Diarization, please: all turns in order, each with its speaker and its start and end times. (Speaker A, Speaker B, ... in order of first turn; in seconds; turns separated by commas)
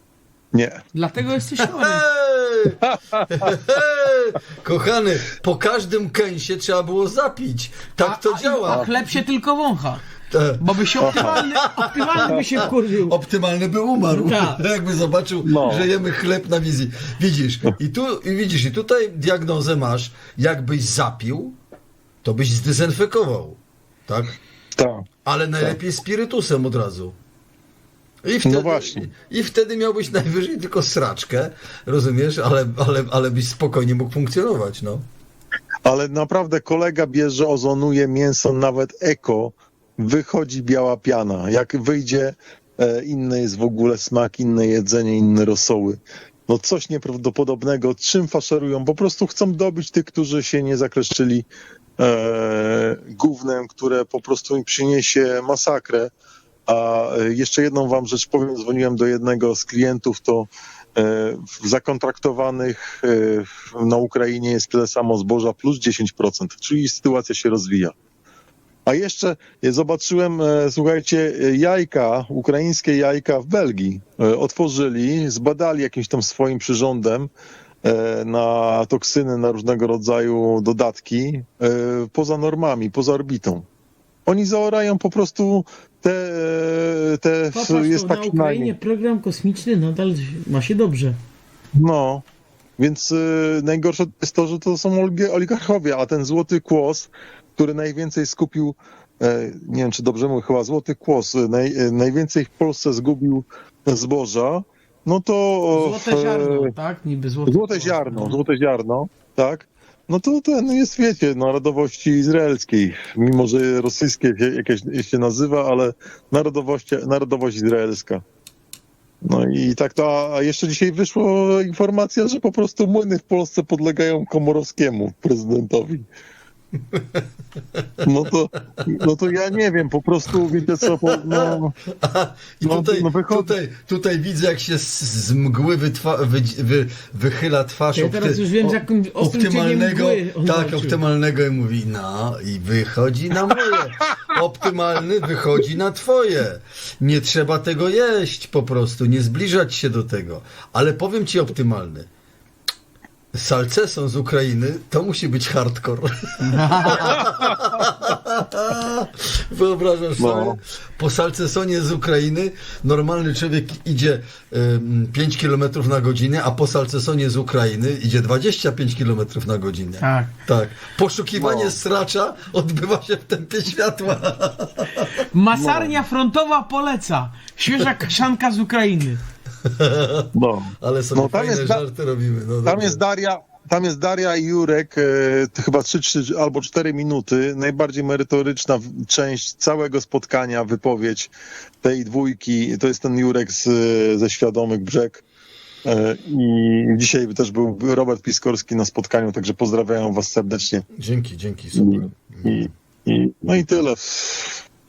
Speaker A: 0.5-0.8, Speaker B: 0.9-2.0, Speaker C: 1.6-9.0, Speaker A: 2.9-3.5, Speaker B: 8.0-10.0, Speaker C: 10.3-21.6, Speaker B: 10.6-13.2, Speaker A: 11.0-11.4, Speaker B: 14.1-14.6, Speaker A: 15.4-15.9, Speaker C: 22.2-24.4, Speaker A: 24.8-25.0, Speaker C: 25.2-27.2, Speaker C: 28.2-35.0, Speaker A: 28.4-29.1, Speaker A: 35.8-51.5, Speaker A: 52.0-56.1, Speaker A: 56.7-67.9, Speaker A: 68.8-77.3, Speaker A: 77.8-83.7, Speaker A: 84.2-88.8, Speaker B: 87.5-91.2, Speaker A: 91.8-92.2, Speaker A: 92.8-106.7, Speaker B: 105.7-108.4, Speaker A: 107.5-118.2, Speaker A: 119.2-126.1, Speaker C: 126.9-127.2, Speaker A: 128.0-131.8, Speaker C: 131.3-152.1, Speaker A: 132.6-133.5, Speaker B: 137.9-141.0, Speaker C: 153.3-175.1, Speaker B: 156.5-157.1, Speaker A: 160.2-160.6, Speaker B: 170.0-170.3, Speaker A: 171.3-171.8, Speaker B: 175.3-179.2, Speaker A: 175.5-176.0, Speaker C: 179.7-183.0, Speaker A: 180.3-181.8, Speaker A: 182.7-195.2, Speaker A: 195.8-200.8, Speaker C: 200.9-202.7, Speaker A: 201.7-204.6